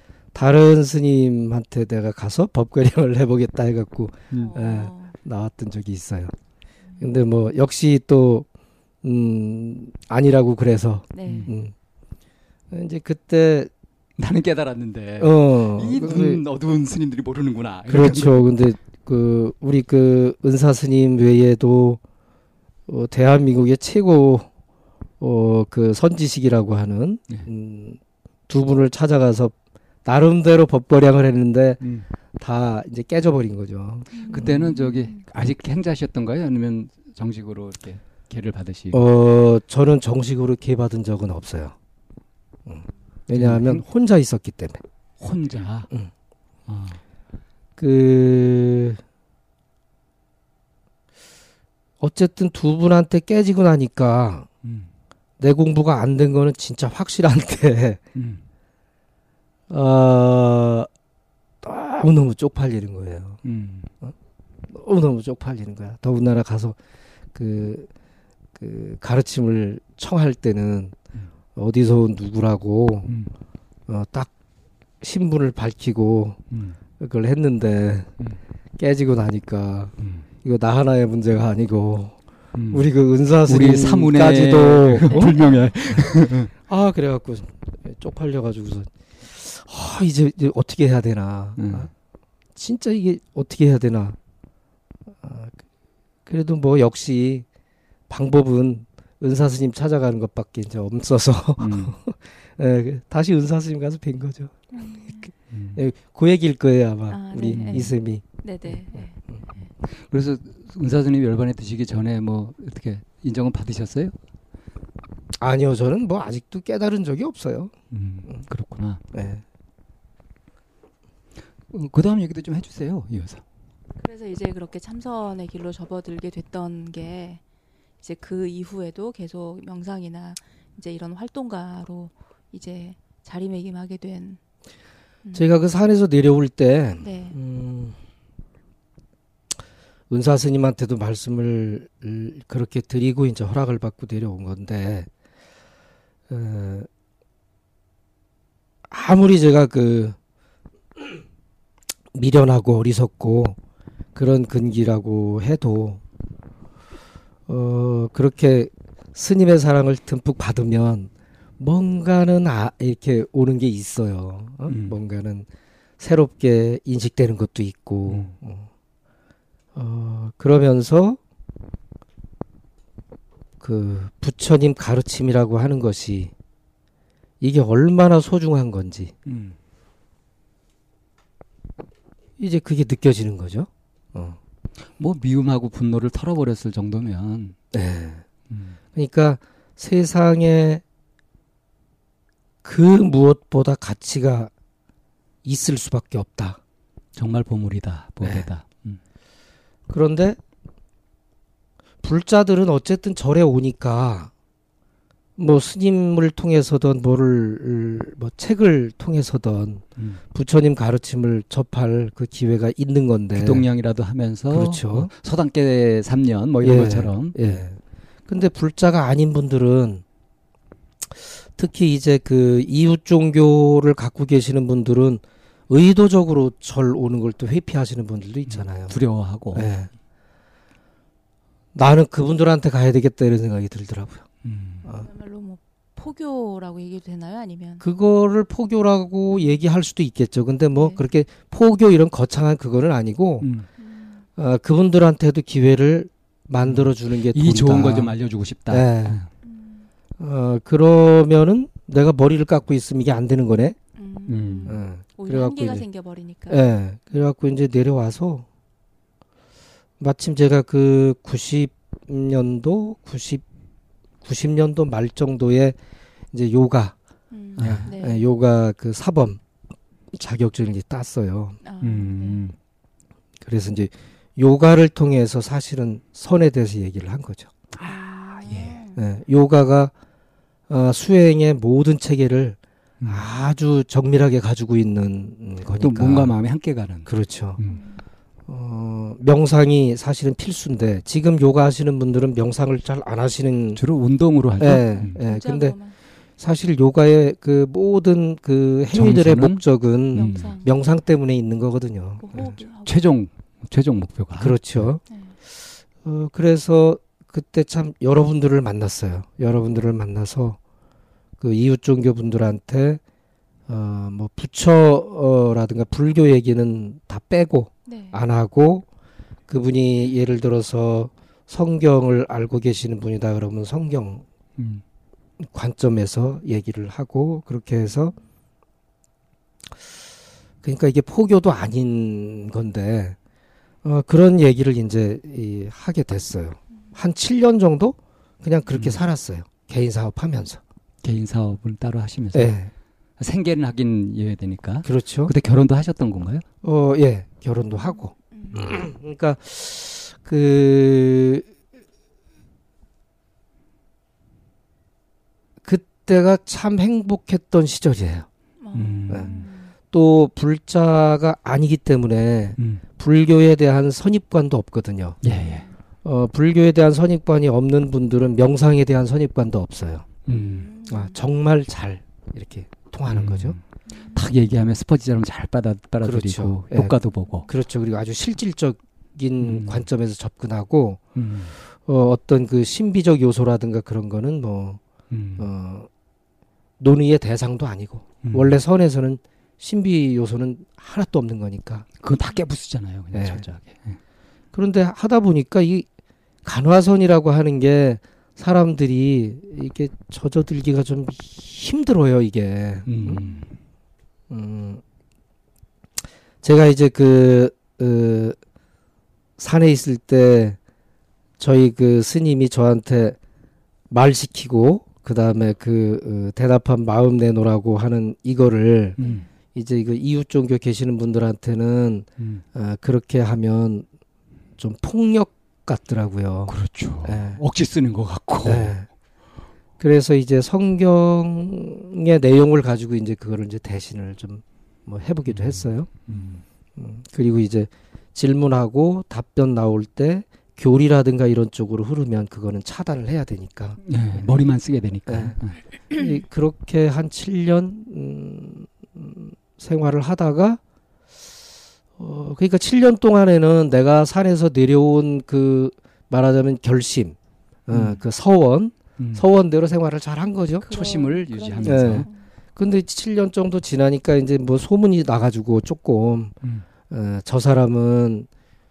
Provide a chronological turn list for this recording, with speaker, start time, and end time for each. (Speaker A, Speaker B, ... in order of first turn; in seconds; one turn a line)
Speaker A: 0.3-6.3
Speaker B: 4.3-5.2
Speaker A: 7.0-8.5
Speaker A: 9.0-11.7
Speaker B: 11.1-11.6
Speaker C: 11.3-11.5
Speaker A: 12.7-13.7
Speaker C: 14.2-18.5
Speaker A: 15.2-16.4
Speaker A: 17.9-22.0
Speaker A: 22.9-24.5
Speaker A: 25.2-31.8
Speaker A: 32.4-34.6
Speaker B: 34.1-35.2
Speaker C: 34.3-39.0
Speaker A: 38.9-41.8
Speaker A: 42.7-44.8
Speaker C: 43.3-43.8
Speaker C: 45.2-45.9
Speaker C: 46.7-47.0
Speaker A: 47.8-49.0
Speaker A: 52.0-54.5
Speaker C: 54.6-54.9
Speaker A: 55.4-58.0
Speaker C: 58.1-58.4
Speaker A: 59.7-60.9
Speaker A: 61.6-63.4
Speaker C: 63.4-63.9
Speaker A: 64.7-66.8
Speaker A: 67.3-67.9
Speaker A: 68.6-71.0
Speaker A: 71.5-73.1
Speaker A: 73.9-74.3
Speaker A: 75.0-76.4
Speaker C: 76.5-76.8
Speaker A: 77.0-78.1
Speaker A: 78.8-82.2
Speaker C: 82.5-82.9
Speaker A: 82.7-91.9
Speaker C: 83.5-86.5
Speaker B: 85.1-85.6
Speaker C: 91.6-91.9
Speaker A: 92.6-94.2
Speaker A: 95.1-95.6
Speaker A: 96.3-97.5
Speaker A: 98.1-104.5
Speaker C: 101.6-102.0
Speaker B: 104.7-105.3
Speaker C: 105.5-105.8
Speaker A: 105.8-108.2
Speaker B: 107.1-109.7
Speaker C: 107.4-107.9
Speaker C: 110.1-114.1
Speaker A: 115.4-117.7
Speaker C: 117.9-119.0
Speaker A: 119.1-119.4
Speaker C: 121.7-123.4
Speaker B: 124.0-127.4
Speaker B: 128.0-134.4
Speaker B: 135.2-135.5
Speaker A: 135.3-138.0
Speaker B: 137.0-137.4
Speaker A: 140.1-145.1
Speaker A: 146.3-146.9
Speaker A: 148.9-150.2
Speaker A: 152.1-153.6
Speaker A: 154.2-156.0
Speaker A: 157.5-165.5
Speaker C: 164.7-165.0
Speaker A: 166.0-168.7
Speaker C: 168.1-168.3
Speaker A: 169.8-171.2
Speaker A: 173.6-176.3
Speaker A: 177.4-179.1
Speaker C: 179.3-179.6
Speaker A: 182.4-184.4
Speaker C: 185.0-187.6
Speaker A: 187.7-188.2
Speaker C: 188.5-188.8
Speaker A: 188.9-190.8
Speaker A: 192.6-194.5
Speaker A: 195.4-196.6
Speaker C: 197.2-199.0
Speaker A: 199.9-200.4
Speaker A: 202.0-204.3
Speaker A: 205.4-213.7
Speaker C: 213.3-217.5
Speaker A: 214.5-215.1
Speaker A: 216.6-220.0
Speaker A: 221.1-229.0
Speaker C: 228.5-229.7
Speaker A: 229.5-229.9
Speaker A: 231.7-234.3
Speaker C: 234.4-234.9
Speaker B: 234.9-237.8
Speaker A: 237.8-243.5
Speaker B: 240.7-241.0
Speaker C: 243.4-243.7
Speaker B: 243.8-244.2
Speaker A: 244.4-248.2
Speaker C: 246.6-249.3
Speaker A: 248.7-249.2
Speaker B: 249.4-249.8
Speaker A: 250.2-253.8
Speaker B: 254.0-256.6
Speaker C: 254.3-254.8
Speaker A: 254.7-255.9
Speaker A: 256.5-258.5
Speaker A: 260.0-263.4
Speaker A: 264.2-265.8
Speaker A: 266.3-266.9
Speaker B: 267.3-268.2
Speaker C: 267.6-267.9
Speaker A: 267.6-269.4
Speaker A: 270.1-271.6
Speaker B: 271.6-272.4
Speaker C: 271.8-272.6
Speaker A: 273.4-277.5
Speaker C: 277.7-278.8
Speaker B: 277.8-279.0
Speaker A: 279.0-279.9
Speaker A: 280.7-286.3
Speaker C: 285.8-287.8
Speaker A: 287.1-287.6
Speaker B: 287.7-288.0
Speaker A: 288.5-293.8
Speaker C: 293.8-295.2
Speaker A: 294.6-295.8
Speaker B: 295.0-296.0
Speaker A: 296.4-302.5
Speaker C: 298.9-299.6
Speaker B: 300.1-300.8
Speaker C: 300.1-300.5
Speaker B: 302.2-303.0
Speaker C: 302.4-304.9
Speaker A: 304.4-305.0
Speaker B: 305.1-305.4
Speaker A: 306.0-310.6
Speaker A: 311.4-313.0
Speaker A: 313.7-318.9
Speaker B: 317.9-318.2
Speaker A: 319.5-324.2
Speaker C: 324.6-324.8
Speaker A: 325.4-328.2
Speaker A: 330.6-333.2
Speaker A: 333.8-340.6
Speaker C: 338.7-339.0
Speaker C: 341.0-342.6
Speaker A: 342.3-342.7
Speaker C: 343.2-346.4
Speaker A: 344.8-345.3
Speaker A: 346.6-351.5
Speaker B: 348.3-348.6
Speaker A: 355.6-358.3
Speaker B: 358.6-359.7
Speaker C: 358.7-359.4
Speaker A: 359.1-359.4
Speaker A: 359.9-365.2
Speaker C: 362.6-362.8
Speaker C: 365.2-365.7
Speaker B: 365.3-365.7
Speaker A: 366.0-370.1
Speaker C: 370.2-370.7
Speaker B: 370.3-371.2
Speaker A: 370.9-373.6
Speaker C: 373.1-373.6
Speaker C: 374.1-377.5
Speaker A: 376.0-377.0
Speaker A: 377.5-381.0
Speaker C: 379.4-379.8
Speaker C: 381.2-381.6
Speaker A: 381.9-384.8
Speaker C: 385.1-385.5
Speaker A: 385.4-385.9
Speaker A: 386.8-391.9
Speaker C: 388.2-388.5
Speaker C: 392.0-394.0
Speaker A: 393.1-393.5
Speaker A: 394.5-395.9
Speaker A: 396.4-403.2
Speaker C: 402.9-403.5
Speaker A: 404.3-404.8
Speaker A: 406.4-408.4
Speaker A: 409.4-410.6
Speaker A: 411.4-413.2
Speaker A: 413.9-419.0
Speaker C: 419.0-419.3
Speaker A: 419.5-423.9
Speaker A: 424.6-427.4
Speaker C: 426.5-428.7
Speaker A: 428.4-428.9
Speaker A: 429.8-435.9
Speaker C: 435.3-436.4
Speaker A: 436.8-444.3
Speaker C: 443.8-445.6
Speaker A: 445.1-445.4
Speaker A: 445.9-450.6
Speaker A: 452.0-457.2
Speaker A: 457.7-460.7
Speaker C: 457.7-458.0
Speaker C: 459.0-459.2
Speaker B: 460.6-462.3
Speaker C: 460.7-462.1
Speaker A: 461.6-466.4
Speaker A: 466.9-468.3